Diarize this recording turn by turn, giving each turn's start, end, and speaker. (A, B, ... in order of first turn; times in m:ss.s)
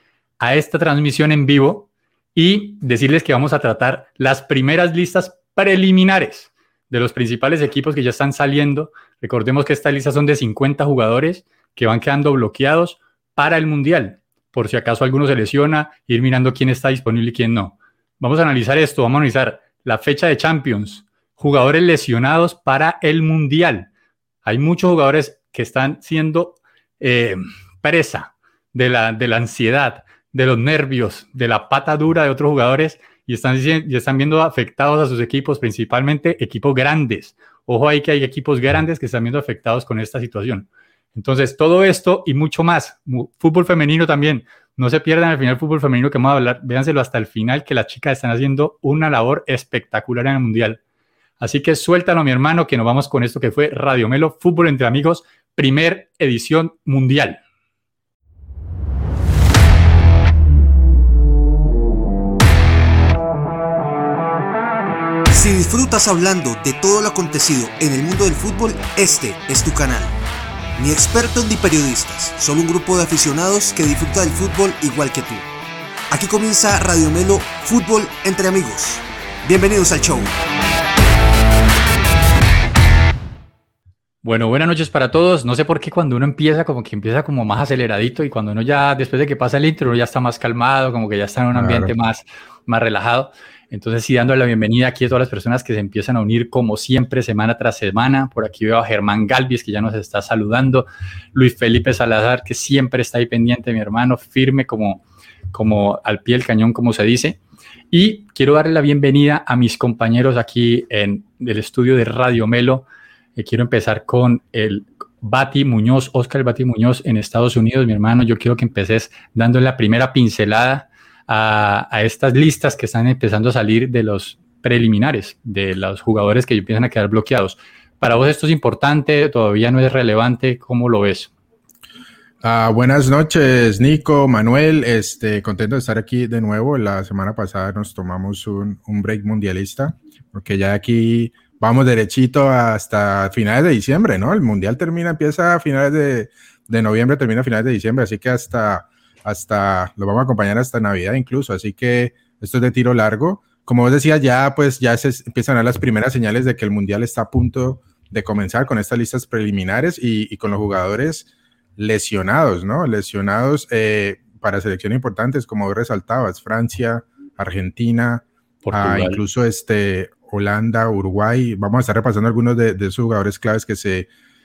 0:00.4-0:23.9 A
0:24.4-0:50.8 A
0:51.4-0:57.4 A
1:05.3-1:10.1 B
1:10.8-1:15.5 B
1:16.1-1:20.3 B
1:24.2-1:47.4 A
1:31.5-1:31.9 C
1:47.9-2:11.3 A
2:12.4-2:54.1 C
2:48.6-2:49.2 A